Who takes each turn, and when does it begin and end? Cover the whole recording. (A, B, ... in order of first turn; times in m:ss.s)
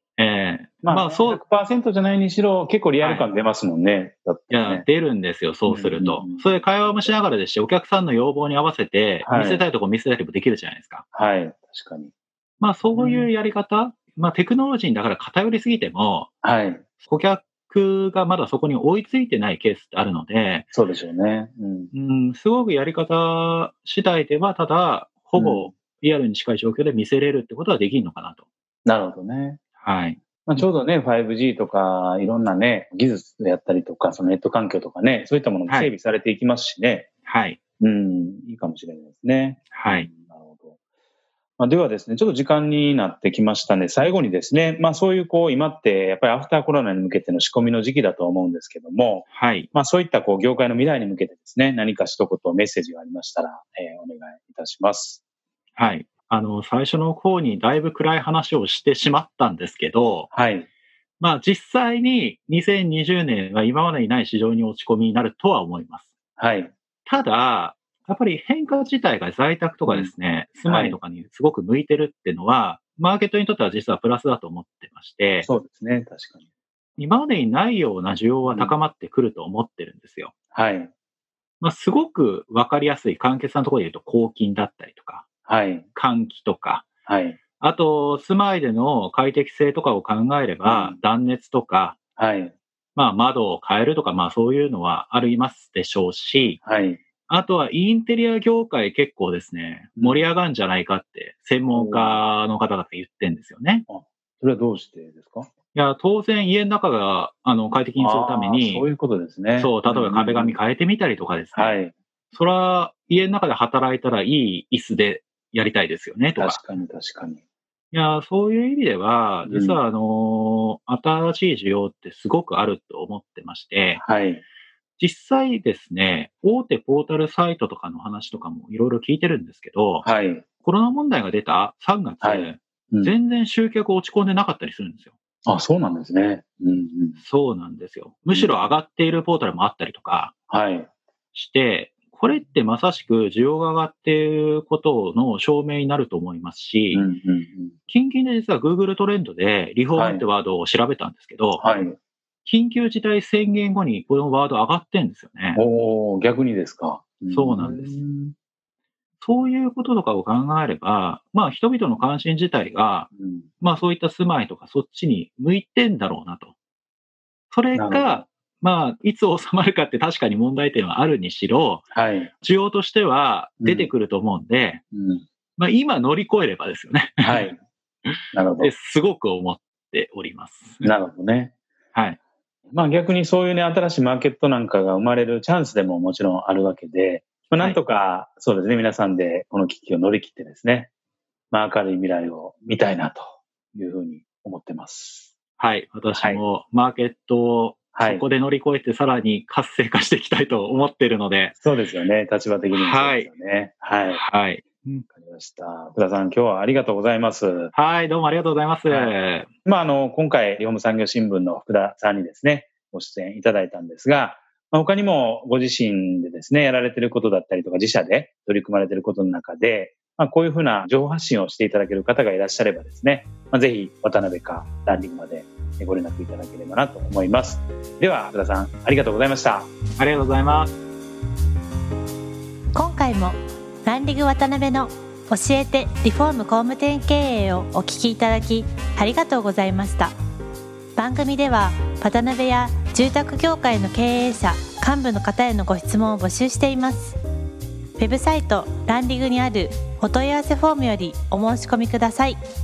0:00.2-0:01.4 A
0:00.8-0:04.8 B
0:03.0-0:03.3 A
0:04.5-0:11.0 A
0:05.7-0:07.1 B
0:09.2-0:09.7 B
0:11.1-0:12.1 B
0:12.6-0:16.3 A
0:12.8-0:13.3 B
0:16.4-0:16.8 B
0:17.0-0:20.7 A
0:20.7-0:21.9 B
0:21.9-0:28.4 A
0:25.4-0:25.7 B
0:28.8-0:29.6 B
0:29.8-0:30.6 A
0:30.5-0:37.1 B
0:37.3-0:37.6 A
0:37.8-0:40.8 B
0:39.7-0:40.1 A
0:41.6-0:55.2 B
0:49.3-0:49.7 A
0:55.8-1:00.3 A
1:00.3-1:00.7 B
1:01.2-1:06.1 A
1:06.4-1:06.7 B
1:07.1-1:15.5 A
1:09.9-1:10.1 B
1:10.6-1:11.0 B
1:15.4-1:16.4 B
1:17.0-1:20.3 A
1:18.5-1:18.7 B
1:20.5-1:20.9 B
1:21.6-1:25.2 A
1:25.5-1:25.9 B
1:26.0-1:26.9 A
1:27.1-1:27.4 B
1:27.6-1:32.0 A
1:30.6-1:31.0 B
1:32.2-1:32.5 B
1:33.0-1:36.6 A
1:36.6-1:37.0 B
1:37.3-1:43.8 A
1:40.0-1:40.3 B
1:41.7-1:42.2 B
1:43.9-1:45.5 B
1:45.7-1:48.9 A
1:48.0-1:50.6 B
1:49.6-1:51.8 A
1:51.5-1:51.9 B
1:52.3-1:56.6 A
1:56.4-1:57.4 B
1:57.9-2:04.0 A
1:59.4-1:59.8 B
2:04.0-2:04.4 B
2:05.0-2:10.1 A
2:10.0-2:10.4 B
2:10.6-2:15.1 A
2:12.2-2:13.1 B
2:15.5-2:17.2 B
2:17.2-2:20.3 A
2:18.3-2:18.7 B
2:20.5-2:20.9 B
2:21.3-2:27.1 A
2:26.9-2:27.8 B
2:27.9-2:31.6 A
2:29.9-2:30.2 B
2:31.6-2:32.0 B
2:32.4-2:35.6 A
2:35.6-2:38.3 B
2:37.3-2:38.0 A
2:39.2-2:43.1 A
2:43.2-2:43.5 B
2:43.6-2:46.5 A
2:47.5-2:51.9 A
2:47.7-2:48.3 B
2:51.9-2:52.3 B
2:52.4-2:54.8 A
2:53.6-2:53.9 B
2:54.9-2:55.2 B
2:55.6-2:57.5 A
2:57.2-2:57.6 B
2:58.1-3:00.9 A
2:58.3-2:58.7 B
3:00.8-3:01.5 B
3:02.7-3:10.9 B
3:11.5-3:15.3 B
3:15.6-3:21.6 A
3:16.1-3:16.4 B
3:17.9-3:18.2 B
3:21.6-3:24.2 B
3:22.7-3:23.3 A
3:24.1-3:25.1 A
3:25.1-3:27.7 B
3:27.7-3:29.5 A
3:29.6-3:49.7 B
3:50.0-3:50.7 A
3:52.7-4:00.1 C
4:01.0-4:07.2 C
4:08.0-4:12.4 C